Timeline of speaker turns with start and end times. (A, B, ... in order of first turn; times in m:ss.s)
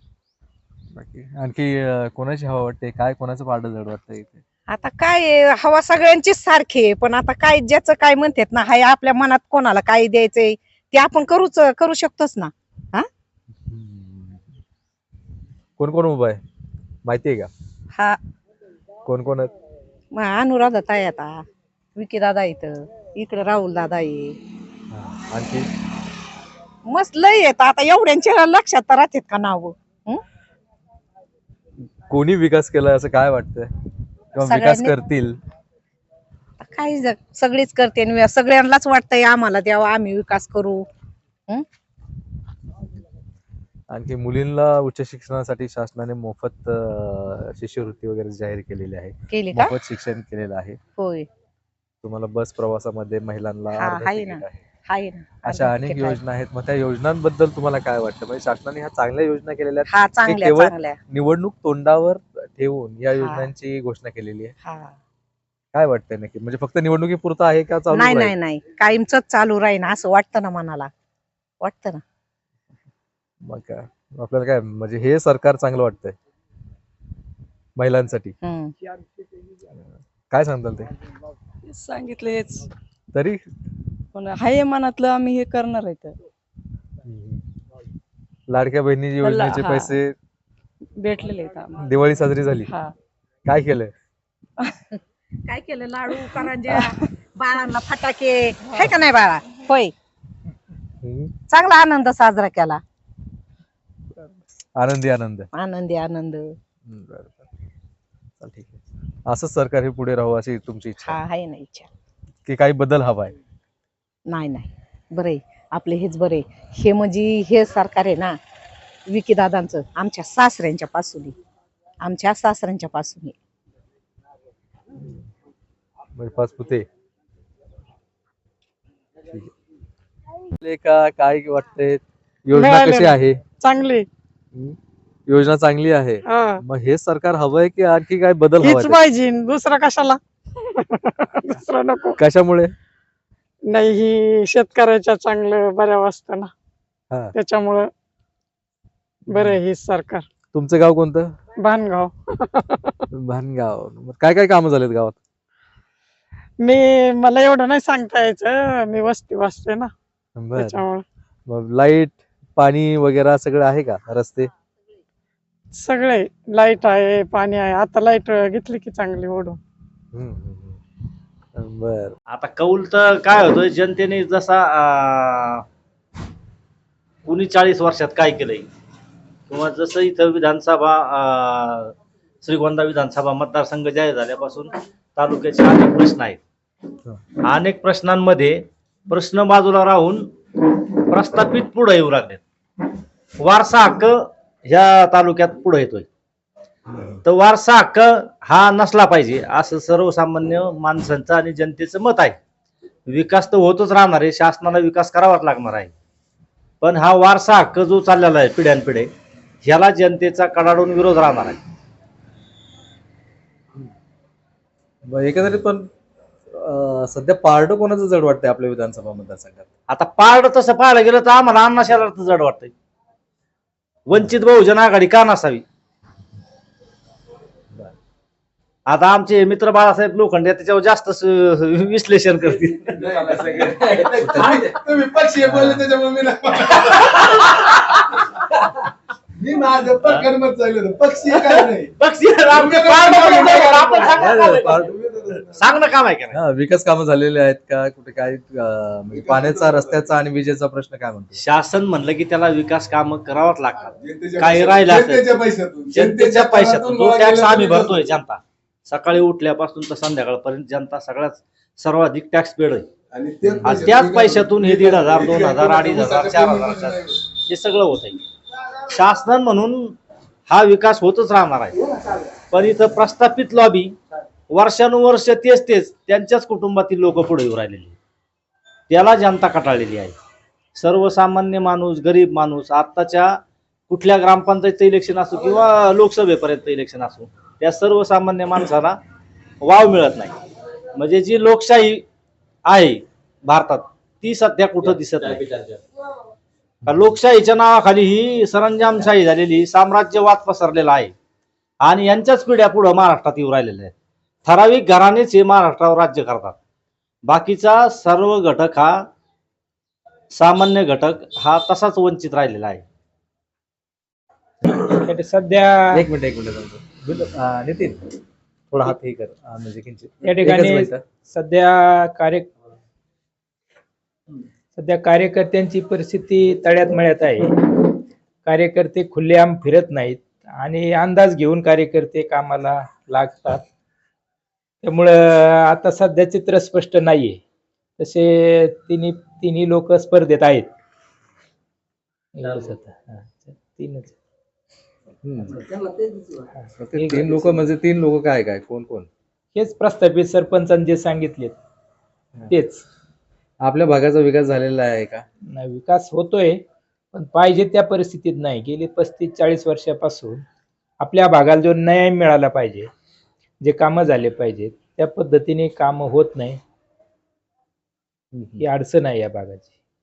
0:00.9-0:04.4 A
0:04.7-0:13.1 B
0:13.7-0:14.4 A
0:15.8-0:16.4 A
0:17.0-0:17.5 A
0:19.1-0:19.5 A
0:20.1-0:21.4 B
0:22.0-0:24.4 B
0:24.9-0:25.7 A
0:26.9-0:30.2 B
0:32.1-0:33.7 A
0:34.3-0:35.4 A
0:34.4-0:35.0 B
0:36.6-0:40.8 B
0:43.9-0:50.8 A
0:49.3-0:49.7 B
0:51.0-0:51.3 B
0:52.0-0:54.6 A
0:53.7-0:56.2 B
0:55.4-1:04.5 A
0:59.9-1:01.0 B
1:03.2-1:03.5 B
1:04.6-1:05.0 B
1:05.7-1:08.3 A
1:07.9-1:10.9 B
1:11.6-1:12.0 B
1:13.4-1:16.2 A
1:17.8-1:18.4 A
1:18.4-1:18.7 B
1:20.3-1:20.9 A
1:21.7-1:22.7 C
1:23.1-1:23.4 A
1:24.2-1:26.2 C
1:27.1-1:27.4 A
1:28.5-1:30.1 A
1:29.2-1:30.0 C
1:31.0-1:31.9 C
1:31.8-1:32.7 A
1:32.6-1:32.9 C
1:33.5-1:33.9 A
1:35.5-1:39.9 B
1:41.0-1:41.3 A
1:41.5-1:42.8 B
1:44.8-1:45.5 A
1:45.5-1:46.5 B
1:46.9-1:47.4 A
1:48.4-1:51.2 A
1:51.0-1:51.9 B
1:52.5-1:53.4 A
1:54.3-1:58.4 B
1:59.1-2:01.4 B
2:02.0-2:03.4 B
2:06.2-2:06.9 A
2:10.6-2:13.4 A
2:12.5-2:14.1 D
2:14.6-2:19.0 A
2:16.2-2:16.6 D
2:18.6-2:20.2 D
2:20.8-2:22.2 D
2:22.2-2:22.7 A
2:23.7-2:26.5 D
2:27.3-2:27.9 D
2:29.3-2:30.3 D
2:29.3-2:29.6 A
2:30.5-2:31.4 A
2:31.6-2:33.0 D
2:33.1-2:35.2 A
2:36.6-2:39.9 D
2:40.4-2:40.8 A
2:40.6-2:41.0 D
2:41.5-2:44.5 A
2:45.7-2:49.6 D
2:50.1-2:50.8 A
2:51.6-2:52.2 A
2:52.3-2:55.6 E
2:57.3-2:58.7 E
2:59.5-3:06.4 E
3:07.4-3:10.3 E
3:11.1-3:12.4 E
3:13.4-3:16.1 E
3:17.2-3:22.4 E
3:23.1-3:25.9 E
3:26.8-3:29.1 E
3:29.6-3:31.6 E
3:35.1-3:35.9 A
3:36.5-3:39.7 A
3:39.9-3:42.7 E
3:44.1-3:45.6 E
3:48.9-3:53.0 E
3:52.9-3:57.7 F
3:54.2-3:54.7 A
3:55.5-3:55.8 A
3:59.4-4:06.0 F
4:00.0-4:00.3 E
4:01.4-4:06.4 E
4:06.3-4:11.4 A
4:09.1-4:10.1 F
4:11.4-4:22.9 E
4:13.7-4:18.1 F
4:23.1-4:27.2 F
4:23.5-4:23.7 A
4:23.6-4:28.2 E
4:28.9-4:30.0 E
4:30.5-4:31.8 E
4:32.5-4:34.0 E
4:34.5-4:38.0 E
4:38.9-4:40.2 E
4:40.8-4:43.4 E
4:43.9-4:49.0 E
4:49.6-4:50.4 E
4:51.0-4:52.0 E
4:52.7-4:55.6 E
4:56.9-4:57.1 A
4:56.9-5:01.1 E
5:01.8-5:03.9 E
5:04.5-5:06.6 E
5:07.3-5:09.1 E
5:10.3-5:12.8 E
5:14.8-5:16.1 G
5:15.9-5:18.0 A
5:18.7-5:21.0 A
5:20.2-5:22.5 G
5:24.8-5:27.9 G
5:28.4-5:33.6 G
5:34.8-5:37.4 G
5:38.0-5:40.7 G
5:42.4-5:44.2 G
5:45.2-5:45.6 A
5:46.8-5:49.1 A
5:46.9-5:47.6 G
5:49.5-5:51.6 G
5:52.5-5:52.8 G
5:53.6-5:55.2 A
5:55.5-5:56.6 G
5:57.1-6:00.4 G
6:01.0-6:02.9 G
6:03.6-6:06.6 G
6:08.3-6:08.6 A
6:08.6-6:09.7 G